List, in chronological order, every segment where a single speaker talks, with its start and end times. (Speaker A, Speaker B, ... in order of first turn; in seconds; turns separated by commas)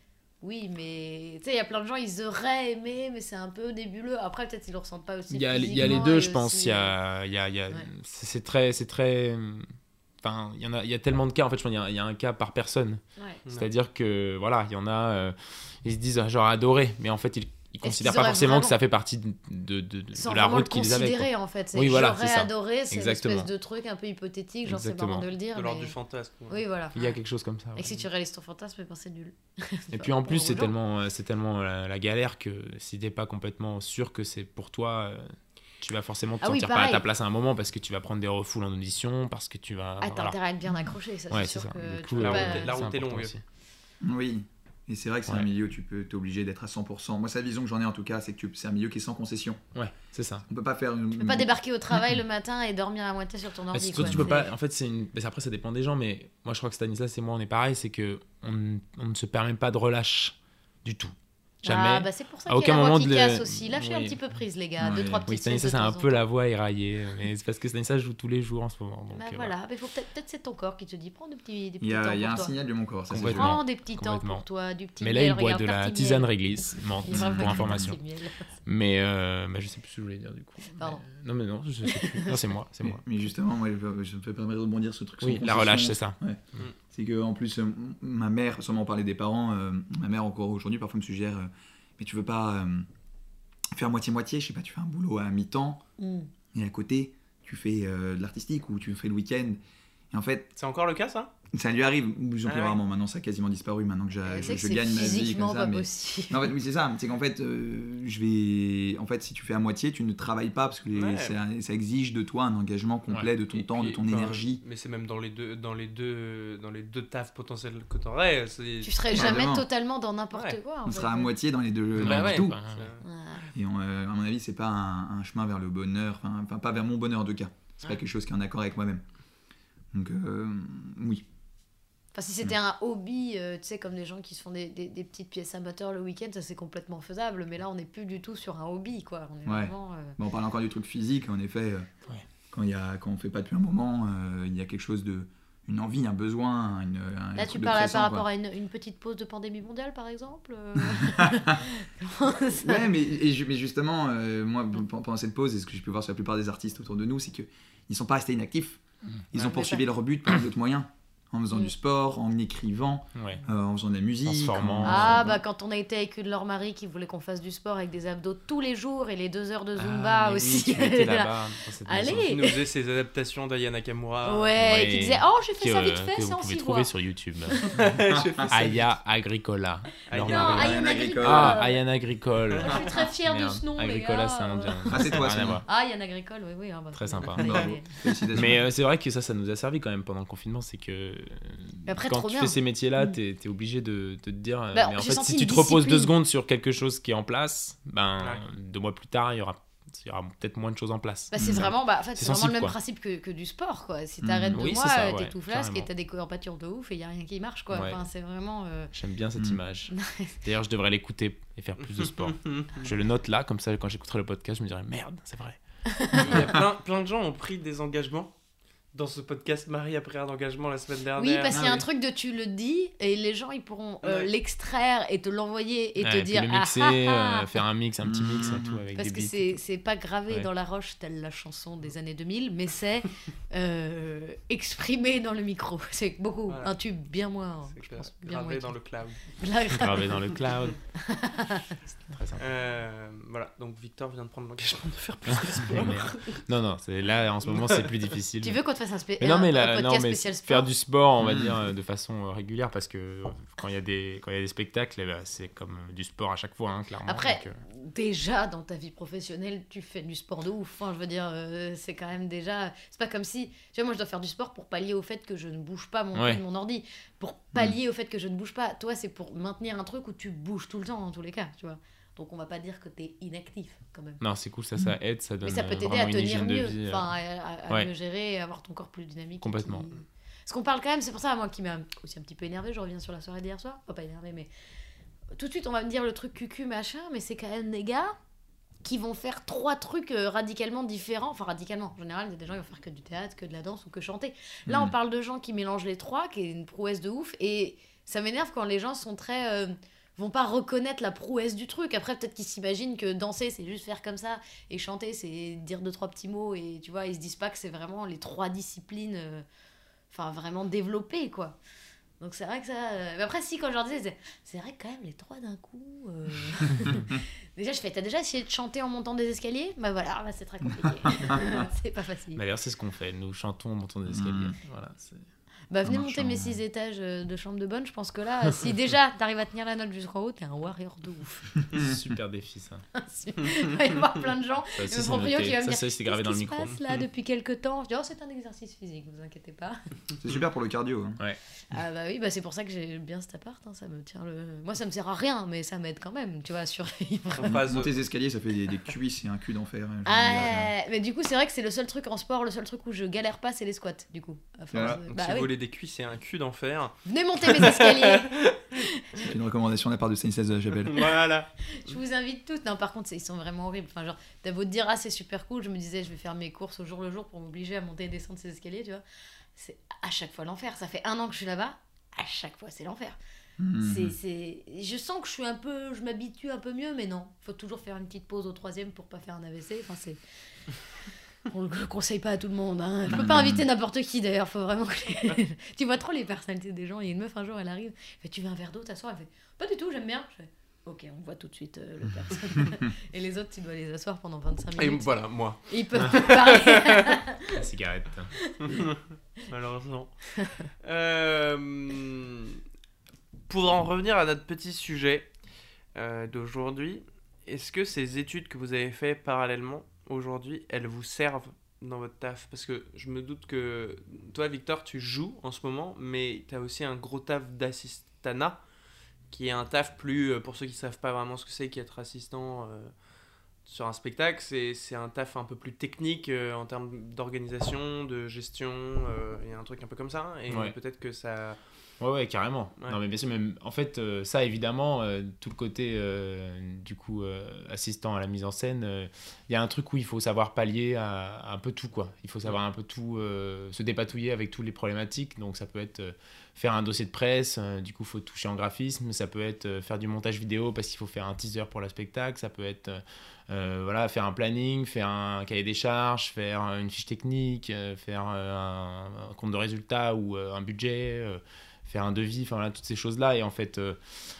Speaker A: 0.4-6.9, Speaker B: 5.3-9.7, Speaker C: 5.7-6.0, Speaker B: 10.2-23.5, Speaker A: 17.8-18.8, Speaker A: 20.1-25.9, Speaker B: 24.6-25.2, Speaker D: 25.5-26.6, Speaker A: 26.5-27.1, Speaker B: 26.9-27.9, Speaker A: 27.8-30.7, Speaker B: 29.9-40.4, Speaker A: 36.4-37.0, Speaker A: 40.0-42.7, Speaker B: 41.3-43.4, Speaker D: 42.1-43.3, Speaker C: 44.0-49.6, Speaker B: 49.7-50.4, Speaker C: 50.5-51.5, Speaker A: 51.1-54.5, Speaker B: 53.7-64.2, Speaker C: 54.0-54.3, Speaker A: 61.6-66.2, Speaker C: 64.8-65.2, Speaker B: 65.3-69.5, Speaker A: 69.1-72.5, Speaker C: 71.8-73.6, Speaker B: 73.1-74.4, Speaker A: 73.1-78.5, Speaker B: 75.0-78.0, Speaker C: 77.1-77.9, Speaker B: 78.6-83.0, Speaker A: 80.8-81.0, Speaker A: 81.8-82.4, Speaker C: 82.8-92.8, Speaker B: 85.2-86.2, Speaker C: 93.7-95.8, Speaker A: 96.0-96.3, Speaker C: 96.5-99.6, Speaker C: 100.1-100.5, Speaker D: 100.5-101.3, Speaker C: 101.5-114.6, Speaker D: 102.5-102.8, Speaker A: 104.2-106.5, Speaker D: 110.9-111.3, Speaker D: 113.5-119.3, Speaker A: 118.8-121.3, Speaker C: 119.1-119.7, Speaker D: 120.3-120.6, Speaker C: 120.8-122.6, Speaker B: 122.0-122.9, Speaker D: 122.0-123.0, Speaker A: 123.0-123.5, Speaker C: 123.5-129.0, Speaker C: 129.9-131.2, Speaker A: 132.1-140.2, Speaker C: 139.4-141.9, Speaker C: 142.5-148.2, Speaker A: 147.3-152.9, Speaker C: 150.8-151.6, Speaker C: 152.5-165.4, Speaker A: 159.3-159.8, Speaker B: 163.1-163.4, Speaker B: 164.2-165.3, Speaker A: 164.8-172.5, Speaker B: 169.8-172.3, Speaker D: 172.3-174.5, Speaker A: 174.2-176.9, Speaker B: 174.6-177.6, Speaker D: 177.7-178.9, Speaker C: 177.8-178.5, Speaker B: 178.5-185.6, Speaker D: 180.1-180.7, Speaker A: 180.2-181.8, Speaker C: 180.4-181.6, Speaker D: 182.5-182.8, Speaker A: 182.6-188.4, Speaker C: 184.9-185.6, Speaker B: 186.9-187.8, Speaker C: 187.3-188.6, Speaker B: 188.3-202.7, Speaker A: 191.8-193.1, Speaker A: 194.7-196.1, Speaker D: 198.2-198.4, Speaker A: 201.3-208.9, Speaker C: 201.4-201.7, Speaker C: 204.2-204.7, Speaker B: 204.5-205.9, Speaker B: 207.7-208.0, Speaker B: 208.9-215.6, Speaker A: 209.9-210.3, Speaker D: 212.0-212.9, Speaker A: 216.0-216.3, Speaker D: 216.1-218.3, Speaker D: 218.9-221.6, Speaker A: 221.2-227.5, Speaker C: 221.5-221.8, Speaker D: 224.0-224.3, Speaker B: 226.0-229.6, Speaker C: 228.0-228.8, Speaker A: 228.9-238.8, Speaker D: 236.5-236.7, Speaker D: 237.7-239.2, Speaker A: 239.3-241.7, Speaker B: 239.8-240.8, Speaker B: 242.1-242.4, Speaker D: 242.4-246.4, Speaker B: 245.5-248.6, Speaker D: 247.5-247.8, Speaker A: 248.4-250.7, Speaker B: 249.2-257.6, Speaker C: 251.2-251.6, Speaker A: 257.1-274.2, Speaker B: 266.1-266.4, Speaker B: 274.2-277.1, Speaker A: 275.4-284.5, Speaker B: 279.4-279.9, Speaker A: 285.3-288.1, Speaker A: 288.8-309.4, Speaker C: 294.7-294.9, Speaker A: 310.1-311.6, Speaker A: 312.2-322.4, Speaker C: 321.1-321.4, Speaker B: 322.3-325.2, Speaker C: 324.1-324.6, Speaker A: 325.7-331.5, Speaker C: 325.9-326.6, Speaker B: 331.7-332.8, Speaker A: 332.9-339.8, Speaker B: 334.7-337.0, Speaker C: 340.2-341.2, Speaker A: 341.7-347.6, Speaker D: 347.4-347.9, Speaker C: 347.4-350.7, Speaker A: 350.0-355.5, Speaker C: 354.7-355.0, Speaker D: 354.8-358.6, Speaker A: 357.0-358.9, Speaker C: 359.2-361.1, Speaker D: 360.9-361.5, Speaker A: 361.7-369.0, Speaker A: 369.6-373.2, Speaker C: 373.6-374.1, Speaker A: 373.8-380.2, Speaker A: 381.4-395.1, Speaker C: 383.1-383.6, Speaker D: 394.8-397.2, Speaker A: 395.6-397.4, Speaker B: 397.4-398.4, Speaker A: 398.4-398.8, Speaker D: 398.6-402.6, Speaker D: 403.5-405.3, Speaker D: 405.9-418.6, Speaker D: 419.3-422.9, Speaker D: 423.6-431.6, Speaker B: 430.5-430.8, Speaker B: 432.0-464.0